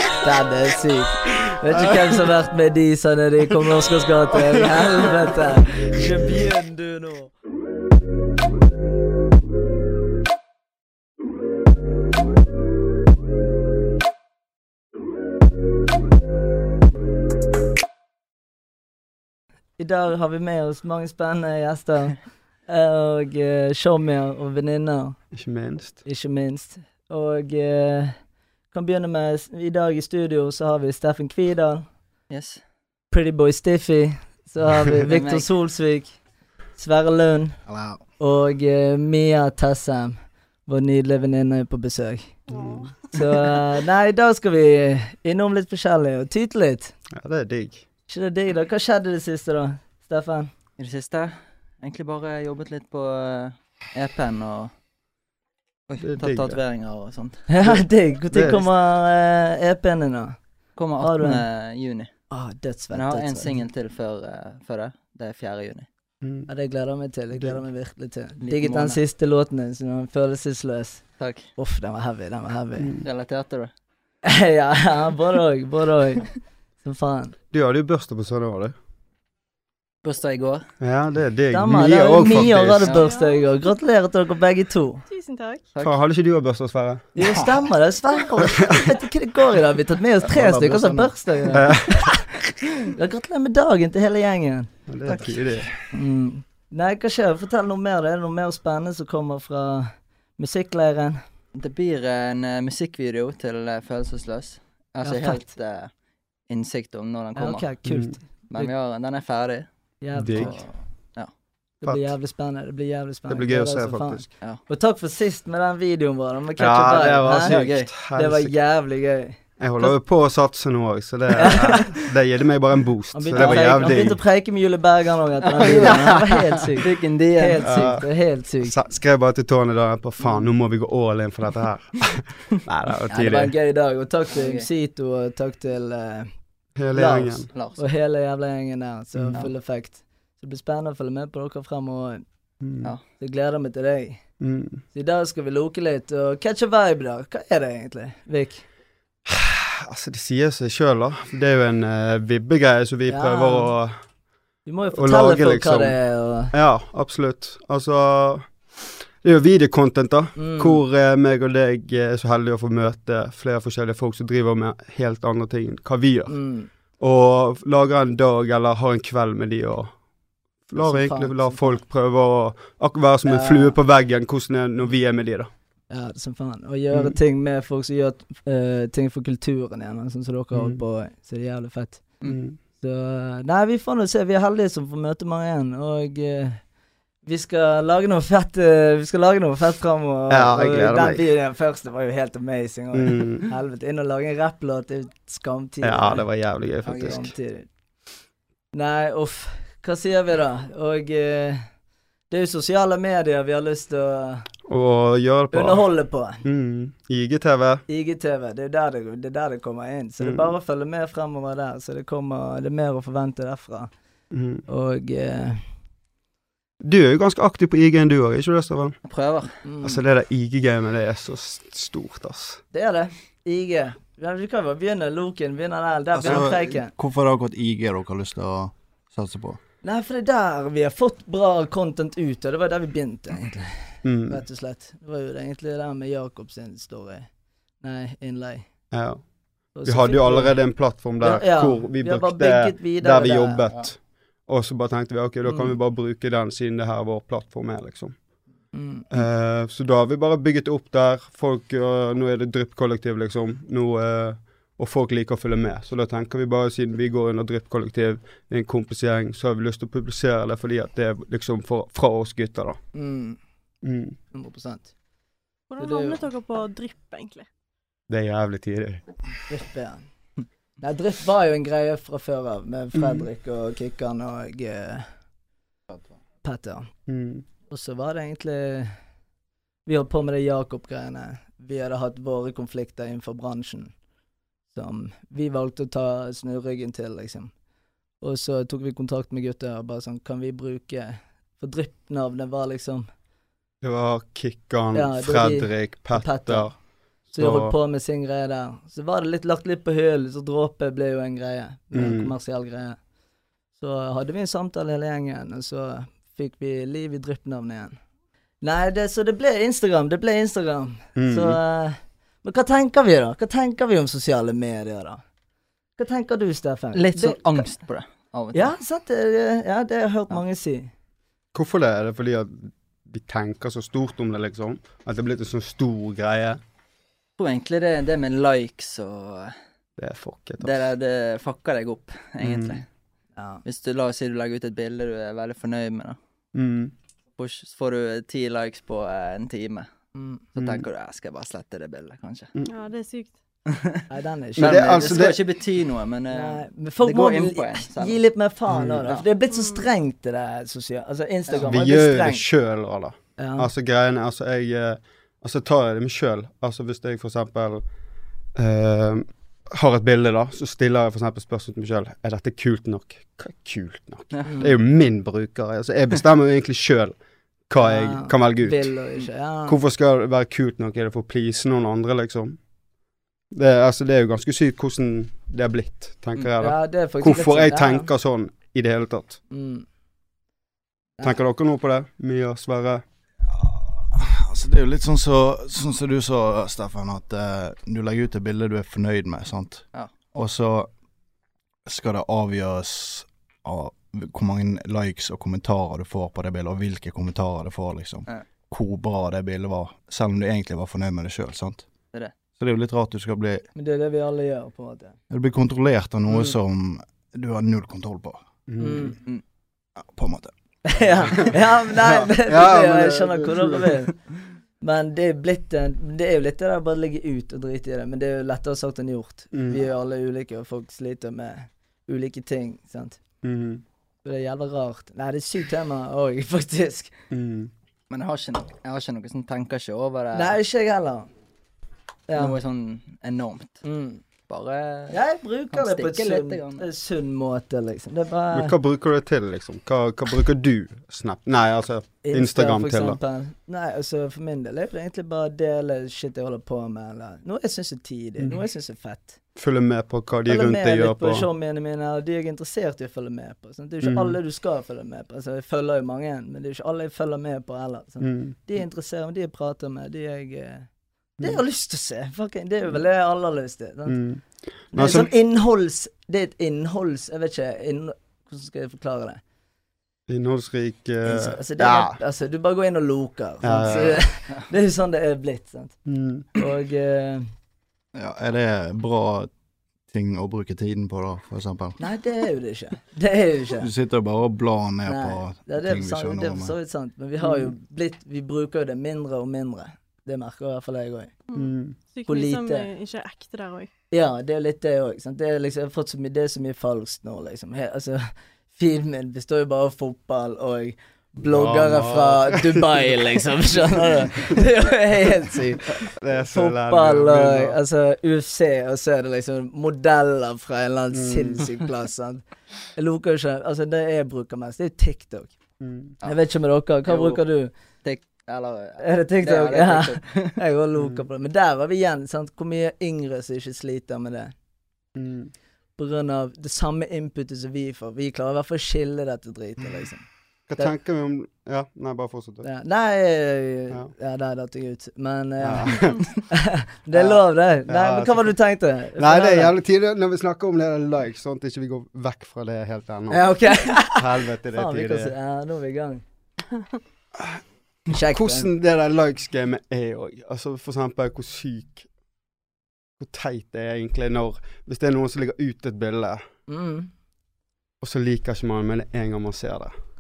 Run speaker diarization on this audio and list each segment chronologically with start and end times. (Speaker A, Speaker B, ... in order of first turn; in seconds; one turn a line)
Speaker A: 0.2-7.3
Speaker A: 19.8-25.2
Speaker B: 25.3-26.0
Speaker A: 26.0-28.2
Speaker A: 28.7-31.9
Speaker C: 32.3-32.6
Speaker A: 33.1-36.2
Speaker C: 35.1-35.5
Speaker A: 36.8-37.6
Speaker D: 37.7-38.0
Speaker A: 38.2-42.4
Speaker B: 42.5-42.9
Speaker A: 43.0-46.9
Speaker B: 47.2-47.9
Speaker A: 48.1-50.5
Speaker C: 50.8-54.7
Speaker C: 55.9-57.5
Speaker B: 56.0-56.6
Speaker A: 57.5-60.4
Speaker B: 57.6-58.7
Speaker C: 60.8-62.1
Speaker A: 61.0-61.4
Speaker A: 62.3-63.6
Speaker C: 62.9-65.9
Speaker B: 66.2-66.5
Speaker A: 66.5-71.0
Speaker C: 68.4-69.0
Speaker C: 71.2-71.5
Speaker A: 71.6-73.0
Speaker C: 73.0-73.7
Speaker A: 74.2-77.3
Speaker B: 77.5-78.8
Speaker C: 80.0-80.7
Speaker B: 80.8-83.0
Speaker A: 81.5-85.0
Speaker C: 82.8-83.1
Speaker E: 83.0-83.5
Speaker E: 85.1-85.6
Speaker B: 85.8-87.1
Speaker A: 87.2-92.2
Speaker B: 88.5-89.0
Speaker D: 90.2-91.2
Speaker B: 91.5-92.2
Speaker A: 92.8-94.7
Speaker B: 94.9-95.7
Speaker C: 95.1-95.7
Speaker A: 95.9-101.2
Speaker C: 101.5-105.9
Speaker A: 105.0-105.5
Speaker C: 106.5-107.7
Speaker A: 107.4-108.7
Speaker B: 107.9-108.2
Speaker C: 108.5-109.7
Speaker A: 110.0-110.7
Speaker B: 110.2-110.5
Speaker C: 110.3-111.3
Speaker A: 111.8-120.0
Speaker B: 111.8-112.1
Speaker B: 113.3-114.3
Speaker B: 116.6-118.6
Speaker C: 117.4-117.9
Speaker B: 119.6-124.2
Speaker A: 121.3-122.0
Speaker A: 123.1-128.8
Speaker C: 123.4-123.7
Speaker C: 125.5-127.8
Speaker B: 127.6-128.1
Speaker B: 128.6-133.5
Speaker A: 133.1-136.3
Speaker C: 134.3-134.7
Speaker B: 136.8-137.5
Speaker A: 136.9-142.2
Speaker C: 137.5-137.8
Speaker B: 139.2-139.4
Speaker B: 142.6-142.9
Speaker A: 143.2-144.2
Speaker B: 144.4-144.8
Speaker A: 144.9-148.7
Speaker B: 149.3-154.0
Speaker A: 153.1-153.7
Speaker A: 154.7-156.5
Speaker B: 154.9-156.0
Speaker B: 156.5-158.5
Speaker B: 159.2-166.3
Speaker A: 160.4-160.8
Speaker A: 166.3-166.7
Speaker B: 167.0-169.9
Speaker B: 170.7-175.5
Speaker A: 170.8-171.8
Speaker A: 173.2-173.8
Speaker A: 175.9-182.1
Speaker B: 182.2-182.6
Speaker A: 182.8-186.6
Speaker A: 187.3-196.3
Speaker B: 190.3-191.2
Speaker B: 192.9-193.5
Speaker B: 195.8-197.3
Speaker A: 196.8-197.7
Speaker A: 198.7-201.7
Speaker A: 202.3-204.5
Speaker B: 204.7-205.9
Speaker A: 205.5-206.4
Speaker B: 206.4-207.8
Speaker A: 207.9-213.9
Speaker B: 210.2-210.5
Speaker B: 214.3-214.7
Speaker A: 214.7-215.6
Speaker B: 216.8-219.0
Speaker C: 219.1-219.5
Speaker A: 219.6-220.0
Speaker B: 219.8-222.6
Speaker A: 222.7-226.9
Speaker D: 226.2-229.6
Speaker A: 229.8-237.3
Speaker B: 234.0-234.4
Speaker A: 237.8-238.7
Speaker B: 238.9-239.2
Speaker A: 239.8-240.6
Speaker B: 239.8-248.2
Speaker A: 241.2-243.6
Speaker A: 245.5-245.8
Speaker A: 248.7-249.1
Speaker B: 249.1-262.8
Speaker A: 262.9-263.4
Speaker B: 263.8-264.2
Speaker A: 264.3-264.9
Speaker E: 265.7-267.5
Speaker A: 265.8-266.2
Speaker B: 268.1-269.0
Speaker A: 269.5-270.0
Speaker A: 270.8-275.1
Speaker B: 272.9-273.3
Speaker A: 276.4-276.9
Speaker B: 277.1-277.4
Speaker A: 277.7-278.9
Speaker A: 279.9-283.9
Speaker A: 284.7-287.5
Speaker A: 288.2-293.1
Speaker B: 293.8-296.8
Speaker A: 294.9-296.7
Speaker A: 297.3-303.0
Speaker B: 297.4-297.7
Speaker B: 301.9-302.3
Speaker A: 303.8-308.0
Speaker A: 308.6-315.2
Speaker B: 311.2-311.6
Speaker A: 316.0-317.7
Speaker C: 316.9-318.7
Speaker A: 318.5-320.9
Speaker B: 321.5-326.6
Speaker C: 327.4-329.6
Speaker B: 330.0-330.9
Speaker C: 330.6-332.9
Speaker B: 332.4-332.8
Speaker A: 333.4-333.6
Speaker C: 333.6-336.2
Speaker B: 336.5-336.9
Speaker C: 337.4-339.9
Speaker A: 340.1-340.5
Speaker C: 340.6-342.5
Speaker B: 340.6-340.9
Speaker E: 342.7-343.3
Speaker C: 343.7-344.0
Speaker A: 344.1-345.1
Speaker B: 344.6-345.4
Speaker C: 344.6-348.2
Speaker A: 346.3-352.4
Speaker B: 348.7-349.1
Speaker E: 349.5-349.9
Speaker B: 351.6-357.9
Speaker A: 353.4-353.7
Speaker B: 358.6-367.2
Speaker A: 364.4-364.8
Speaker B: 367.7-368.9
Speaker A: 367.8-369.8
Speaker B: 369.7-372.6
Speaker B: 373.5-379.4
Speaker A: 376.6-378.1
Speaker A: 379.5-379.9
Speaker B: 381.2-383.0
Speaker D: 383.5-390.9
Speaker D: 391.9-401.9
Speaker D: 402.6-403.6
Speaker A: 403.8-405.2
Speaker D: 405.3-408.4
Speaker A: 406.3-406.6
Speaker B: 408.7-409.2
Speaker A: 408.8-409.2
Speaker D: 410.0-411.5
Speaker A: 410.8-414.1
Speaker B: 412.0-414.0
Speaker A: 414.8-423.2
Speaker B: 419.5-419.9
Speaker B: 423.4-423.8
Speaker A: 424.2-427.1
Speaker B: 427.3-427.7
Speaker C: 428.1-430.6
Speaker A: 430.3-431.3
Speaker A: 432.3-432.6
Speaker C: 432.4-433.8
Speaker A: 433.8-434.2
Speaker C: 434.5-435.2
Speaker A: 435.1-438.8
Speaker C: 435.7-436.9
Speaker B: 438.5-443.2
Speaker A: 442.2-449.4
Speaker B: 449.6-451.5
Speaker A: 450.5-460.9
Speaker B: 454.0-454.4
Speaker B: 458.2-458.6
Speaker A: 461.4-464.2
Speaker B: 464.1-465.3
Speaker A: 464.9-469.4
Speaker B: 470.3-472.2
Speaker A: 471.2-476.0
Speaker B: 473.6-474.3
Speaker B: 476.1-476.5
Speaker A: 476.6-477.5
Speaker D: 478.1-479.5
Speaker D: 480.1-482.0
Speaker A: 482.0-483.9
Speaker D: 483.8-486.8
Speaker A: 485.1-491.3
Speaker E: 491.5-493.9
Speaker B: 491.6-492.0
Speaker A: 492.3-492.9
Speaker A: 494.1-512.4
Speaker B: 501.4-503.1
Speaker B: 506.0-507.8
Speaker B: 511.1-511.7
Speaker A: 513.0-515.5
Speaker B: 515.8-516.2
Speaker A: 516.2-517.7
Speaker C: 517.1-517.4
Speaker C: 518.0-520.6
Speaker A: 519.0-524.5
Speaker B: 521.0-521.2
Speaker B: 525.1-525.5
Speaker A: 526.0-530.3
Speaker B: 530.7-532.7
Speaker A: 532.6-539.7
Speaker B: 535.6-536.4
Speaker B: 537.1-538.5
Speaker B: 539.2-545.3
Speaker A: 543.3-546.2
Speaker A: 548.1-548.7
Speaker B: 548.2-552.1
Speaker B: 553.2-556.5
Speaker A: 556.7-557.1
Speaker B: 558.0-559.9